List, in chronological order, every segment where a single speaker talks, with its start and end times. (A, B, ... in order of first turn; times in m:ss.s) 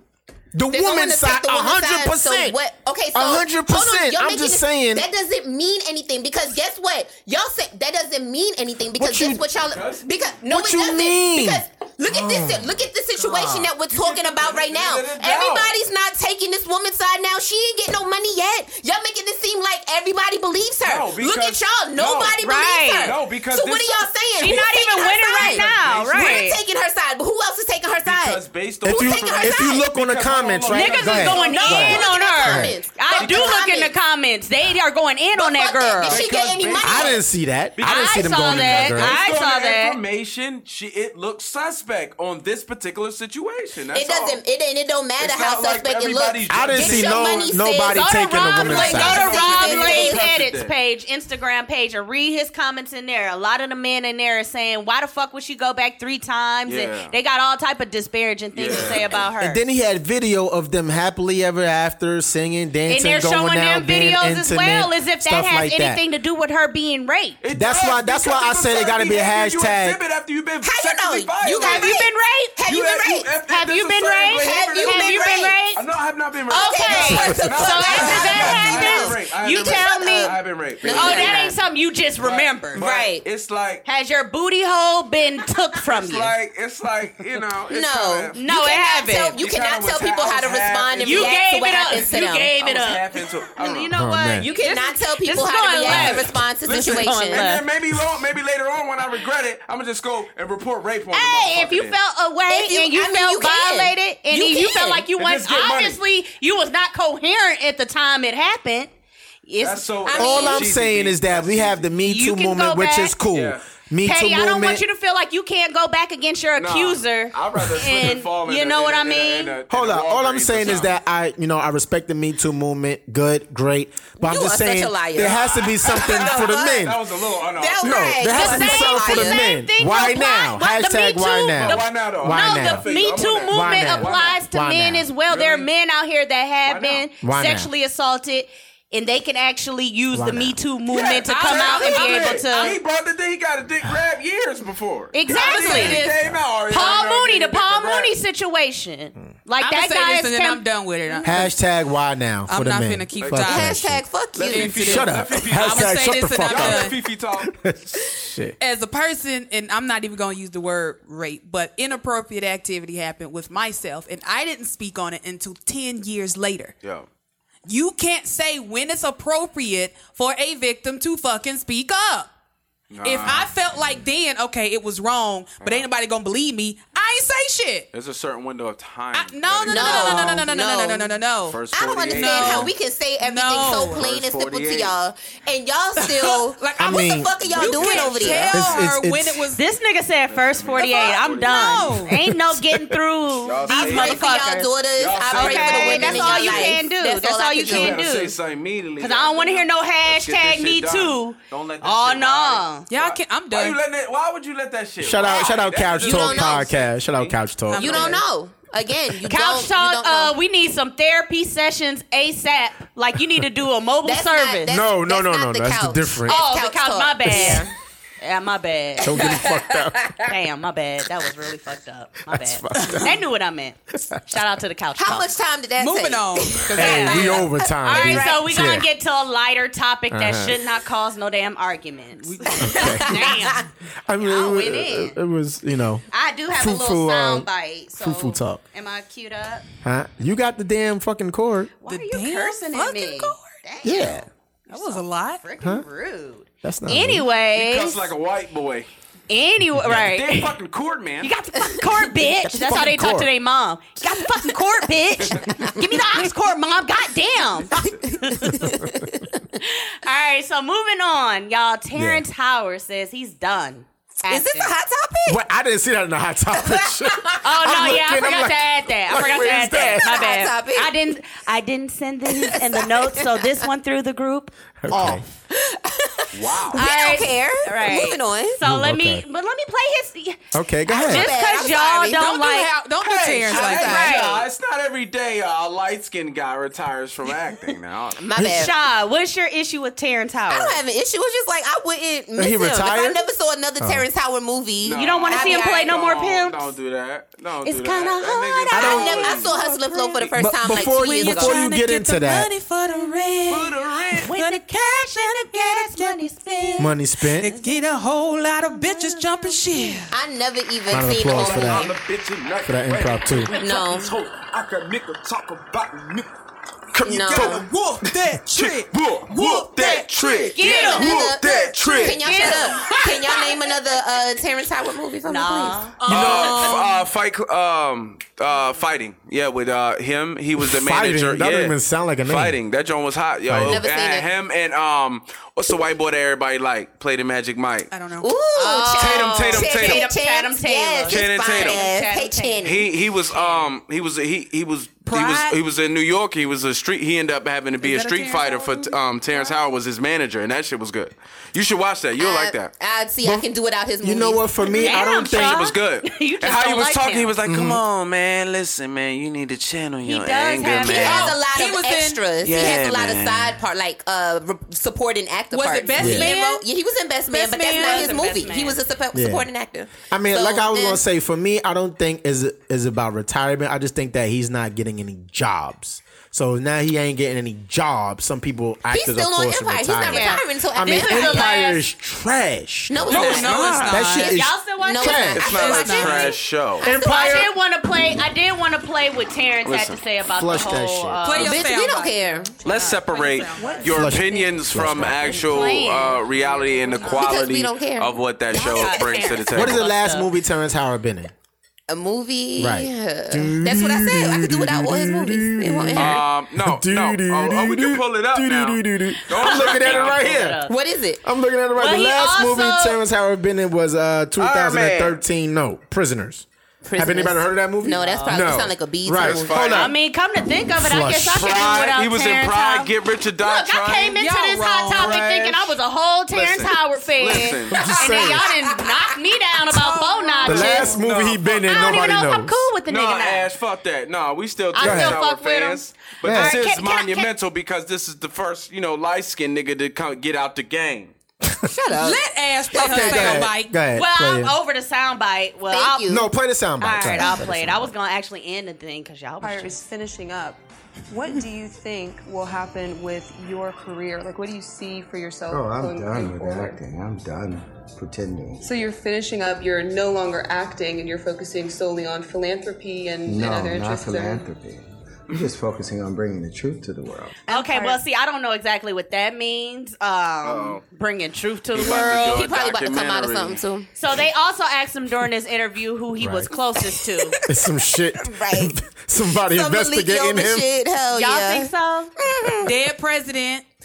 0:00.5-0:02.6 A
0:00.7-0:29.8 B
0:03.1-0:05.0 A
0:08.9-0:09.4 A
0:09.6-0:10.0 C
0:10.5-0:12.7 A
0:13.3-0:15.8 C
0:20.8-0:22.4 C
0:22.4-0:23.2 D
0:23.0-0:24.5 C
0:24.4-0:26.6 D
0:25.3-0:26.5 C
0:28.0-0:31.9 C
0:28.8-0:32.7 A
0:30.7-0:36.2 D
0:31.2-0:33.9 B
0:33.1-0:33.5 C
0:35.3-0:37.2 B
0:36.0-0:37.2 C
0:36.8-0:39.2 A
0:37.8-0:44.4 C
0:37.8-0:40.0 D
0:43.9-0:50.2 B
0:45.2-0:47.5 C
0:46.5-0:49.2 A
0:47.9-0:59.6 D
0:48.7-0:50.7 C
0:56.7-0:57.1 C
0:58.5-0:59.1 C
0:59.4-1:06.0 A
1:02.9-1:07.4 D
1:07.4-1:12.0 C
1:07.5-1:10.0 A
1:10.6-1:13.3 B
1:11.6-1:12.6 D
1:12.7-1:21.5 C
1:13.5-1:15.8 D
1:14.3-1:15.6 B
1:16.5-1:21.5 B
1:16.5-1:20.3 D
1:20.9-1:22.8 D
1:22.2-1:23.8 C
1:22.8-1:23.2 B
1:23.8-1:26.3 D
1:25.8-1:28.4 C
1:27.7-1:32.5 B
1:28.3-1:29.4 D
1:29.4-1:31.4 C
1:31.0-1:37.6 D
1:32.0-1:33.9 C
1:33.9-1:34.5 A
1:34.4-1:37.5 B
1:35.9-1:42.0 C
1:41.1-1:48.9 D
1:42.5-1:45.1 B
1:45.2-1:46.0 C
1:49.4-1:50.5 D
1:49.6-1:51.9 C
1:50.0-1:50.6 B
1:50.2-1:54.8 A
1:52.0-1:53.2 D
1:53.3-1:53.6 C
1:54.0-1:59.5 D
1:56.6-2:00.9 C
1:59.7-2:07.0 A
2:04.2-2:09.4 B
2:05.2-2:08.1 C
2:07.8-2:12.9 A
2:08.3-2:22.8 D
2:11.6-2:14.4 C
2:13.5-2:15.1 A
2:15.3-2:15.7 C
2:16.6-2:17.1 C
2:17.2-2:17.7 A
2:20.1-2:20.6 A
2:20.9-2:28.1 C
2:21.0-2:22.6 E
2:25.1-2:26.1 D
2:25.3-2:26.2 E
2:26.7-2:31.2 D
2:29.6-2:31.5 E
2:31.2-2:34.0 A
2:32.5-2:33.8 E
2:33.2-2:33.5 C
2:33.4-2:34.9 B
2:34.3-2:37.6 C
2:34.5-2:37.0 E
2:34.8-2:38.5 A
2:38.6-2:46.7 E
2:47.6-2:52.3 E
2:52.9-2:53.5 C
2:53.0-2:57.9 E
2:55.6-2:55.9 C
2:57.9-3:00.4 C
2:59.1-3:01.6 E
2:59.7-3:01.2 B
3:01.5-3:02.7 C
3:01.7-3:08.7 B
3:02.1-3:04.0 E
3:03.8-3:04.9 C
3:06.0-3:09.6 E
3:06.8-3:07.7 A
3:07.4-3:08.8 C
3:08.5-3:09.4 A
3:09.5-3:14.7 D
3:10.3-3:12.0 C
3:10.8-3:12.2 E
3:13.4-3:14.4 C
3:13.7-3:18.0 B
3:15.0-3:16.8 C
3:15.3-3:18.4 D
3:17.6-3:27.4 C
3:19.0-3:22.9 D
3:22.9-3:23.8 E
3:25.0-3:28.1 A
3:25.2-3:26.7 B
3:27.7-3:28.2 E
3:27.7-3:30.3 B
3:29.2-3:34.8 D
3:34.0-3:37.7 B
3:34.7-3:36.4 A
3:36.3-3:37.7 D
3:38.2-3:39.4 D
3:39.0-3:40.2 A
3:40.2-3:45.3 D
3:42.3-3:43.2 A
3:43.9-3:44.2 A
3:45.0-3:48.3 B
3:45.8-3:47.4 E
3:46.7-3:48.8 A
3:46.8-3:53.6 D
3:50.1-3:50.6 A
3:52.2-3:53.0 E
3:52.6-3:53.4 A
3:52.6-3:53.6 B
3:54.0-3:58.6 A
3:54.2-3:55.2 D
3:56.1-3:59.6 D
3:59.8-4:01.7 A
4:01.8-4:08.1 D
4:01.8-4:03.6 E
4:03.8-4:04.2 A
4:04.7-4:05.4 E
4:06.6-4:07.3 A
4:07.5-4:08.9 C
4:09.3-4:10.5 D
4:09.8-4:11.3 C
4:11.2-4:18.7 D
4:12.4-4:13.3 A
4:17.8-4:19.1 B
4:18.5-4:19.0 A
4:19.6-4:24.7 D
4:21.9-4:22.2 A
4:24.3-4:25.4 B
4:25.3-4:30.1 A
4:26.5-4:27.9 B
4:27.4-4:34.5 D
4:29.2-4:30.9 B
4:32.3-4:33.5 B
4:34.8-4:35.2 A
4:34.9-4:38.6 B
4:36.3-4:36.8 C
4:36.7-4:42.7 D
4:38.6-4:39.2 A
4:40.5-4:41.3 A
4:40.9-4:42.4 B
4:42.1-4:44.2 E
4:43.0-4:48.2 C
4:43.5-4:44.5 D
4:48.2-4:48.8 B
4:48.4-4:48.7 A
4:48.4-4:50.8 D
4:50.5-4:55.9 B
4:52.4-4:53.2 A
4:53.8-4:54.0 A
4:54.8-4:59.5 C
4:54.9-4:56.7 D
4:57.6-5:00.2 D
4:58.7-4:59.1 A
4:58.7-5:01.6 B
5:00.4-5:02.5 A
5:00.8-5:10.1 E
5:03.5-5:04.3 C
5:04.2-5:06.9 D
5:06.8-5:07.5 A
5:07.5-5:07.8 D
5:08.6-5:10.0 D
5:10.1-5:11.9 B
5:10.9-5:11.9 A
5:11.3-5:16.3 C
5:12.6-5:13.5 A
5:13.6-5:14.1 B
5:16.9-5:22.7 C
5:17.0-5:17.6 B
5:17.2-5:20.1 E
5:19.9-5:26.7 B
5:20.5-5:21.2 D
5:22.0-5:23.0 D
5:22.8-5:23.4 E
5:25.2-5:26.4 D
5:26.0-5:26.8 E
5:26.1-5:37.9 C
5:30.6-5:32.6 A
5:33.5-5:33.8 A
5:33.7-5:34.3 B
5:37.9-5:38.3 E
5:38.2-5:42.9 B
5:38.5-5:42.6 D
5:39.0-5:40.1 C
5:41.1-5:41.8 C
5:42.6-5:52.7 C
5:43.3-5:43.6 E
5:45.1-5:45.6 E
5:47.8-5:49.5 E
5:52.2-5:54.4 B
5:54.0-5:55.6 A
5:54.7-5:57.3 D
5:55.3-6:01.4 C
5:57.4-5:57.8 A
6:00.0-6:01.4 D
6:00.8-6:11.0 B
6:01.2-6:02.2 E
6:02.4-6:03.6 C
6:05.5-6:06.6 E
6:06.0-6:06.3 A
6:07.3-6:08.2 E
6:07.7-6:08.8 D
6:09.1-6:09.5 A
6:10.1-6:25.5 A
6:18.9-6:21.6 B
6:20.1-6:21.8 D
6:22.9-6:24.2 B
6:23.1-6:24.0 C
6:23.1-6:24.4 E
6:24.1-6:26.3 D
6:24.8-6:26.4 B
6:25.3-6:26.8 C
6:25.5-6:26.3 E
6:26.8-6:27.5 A
6:26.8-6:31.7 D
6:29.6-6:30.0 C
6:30.3-6:31.5 A
6:31.2-6:34.1 E
6:31.4-6:32.5 B
6:32.6-6:39.8 C
6:33.6-6:34.5 D
6:33.9-6:35.2 A
6:35.0-6:37.3 D
6:37.0-6:39.3 B
6:38.5-6:40.3 D
6:39.5-6:41.3 A
6:41.9-6:46.2 B
6:42.6-6:50.6 A
6:46.0-6:50.2 C
6:49.4-6:50.7 D
6:50.6-6:51.2 B
6:51.2-6:59.9 A
6:51.8-6:53.0 D
6:54.4-6:55.2 C
6:56.9-6:59.6 B
6:57.9-6:58.5 D
6:59.2-6:59.9 C
6:59.7-7:11.0 D
7:00.8-7:01.7 A
7:01.3-7:04.2 C
7:04.2-7:05.2 E
7:04.9-7:05.7 C
7:06.3-7:08.0 C
7:07.7-7:08.5 A
7:09.7-7:10.9 E
7:10.4-7:12.5 A
7:10.7-7:11.9 C
7:11.7-7:13.5 D
7:12.9-7:21.1 C
7:14.7-7:17.3 D
7:14.8-7:15.2 A
7:16.2-7:16.6 A
7:21.6-7:23.5 B
7:22.0-7:23.8 E
7:22.7-7:24.5 A
7:23.9-7:26.0 D
7:25.7-7:26.3 B
7:26.1-7:27.9 A
7:26.8-7:29.8 D
7:29.4-7:36.8 F
7:35.5-7:38.7 G
7:38.6-7:44.5 F
7:43.2-7:47.4 G
7:47.5-7:52.4 D
7:47.5-7:48.0 B
7:50.4-7:50.8 C
7:51.7-7:53.6 C
7:51.8-7:53.9 B
7:54.0-7:57.4 D
7:56.2-7:56.5 A
7:57.4-8:00.7 A
7:58.2-7:58.7 B
7:59.3-8:02.8 B
8:01.1-8:02.1 D
8:02.6-8:03.6 E